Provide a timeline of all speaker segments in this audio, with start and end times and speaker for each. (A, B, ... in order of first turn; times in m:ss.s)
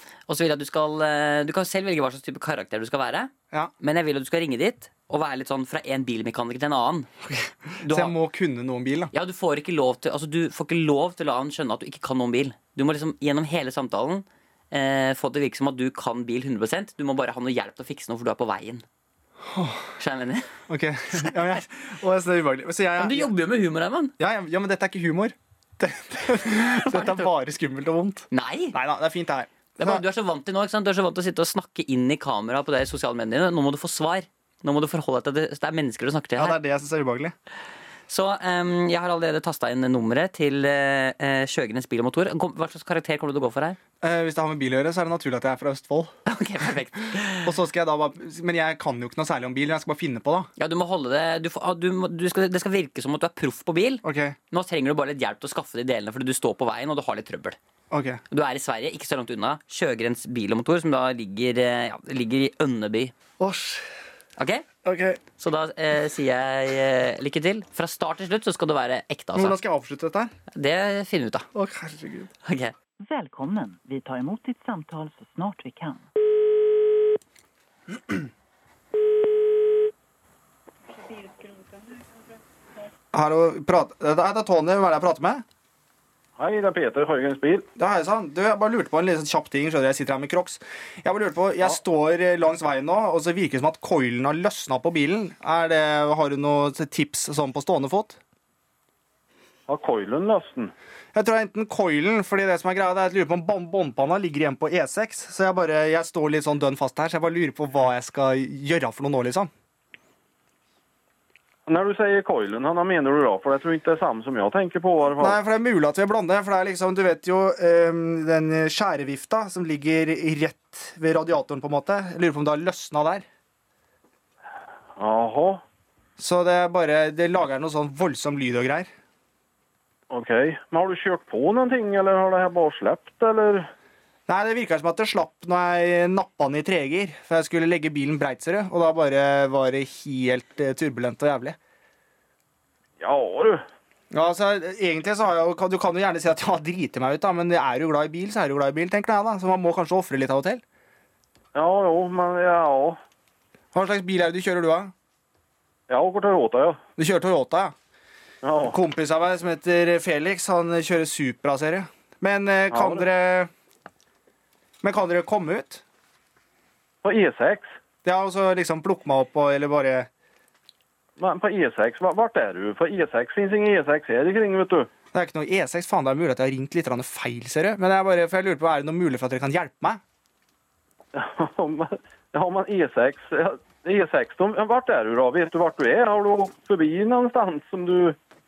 0:00.3-0:07.1 A
0:07.3-0:09.1 B
0:07.8-0:08.2 A
0:09.1-0:18.8 A
0:19.4-0:19.9 B
0:20.0-0:20.5 A
0:20.7-0:23.3 B
0:23.0-0:24.1 A
0:24.2-0:30.0 B
0:26.8-0:27.3 A
0:28.3-0:28.8 A
0:29.8-0:36.6 A
0:36.4-0:37.3 B
0:38.1-0:43.8 A
0:44.0-0:46.1 B
0:46.2-0:47.5 A
0:47.4-0:50.5 B
0:50.6-0:57.6 A
0:54.0-0:54.4 B
0:57.9-0:58.2 B
0:58.3-1:03.1 A
1:03.4-1:03.9 B
1:04.4-1:04.6 A
1:04.8-1:05.2 B
1:05.4-1:09.6 A
1:09.3-1:10.3 B
1:10.5-1:11.5 A
1:11.5-1:12.3 B
1:12.4-1:12.7 A
1:13.0-1:16.0 C
1:23.1-1:25.4 B
1:26.4-1:27.7 D
1:27.8-1:38.2 B
1:39.7-1:40.7 D
1:41.1-1:49.5 B
1:51.7-1:55.4 D
1:55.2-2:03.2 B
2:05.0-2:05.6 D
2:06.2-2:08.9 B
2:10.1-2:13.7 D
2:14.3-2:21.6 B
2:23.0-2:23.6 D
2:24.1-2:30.6 B
2:31.5-2:33.0 D
2:33.7-2:34.9 B
2:35.9-2:36.8 D
2:37.0-2:37.7 B
2:38.4-2:38.8 D
2:38.7-2:43.5 B
2:42.7-2:43.0 D
2:44.8-2:45.8 B
2:47.0-2:47.7 D
2:48.0-2:50.1 B
2:51.2-2:54.9 D
2:55.1-3:00.0 B
3:01.1-3:08.2 D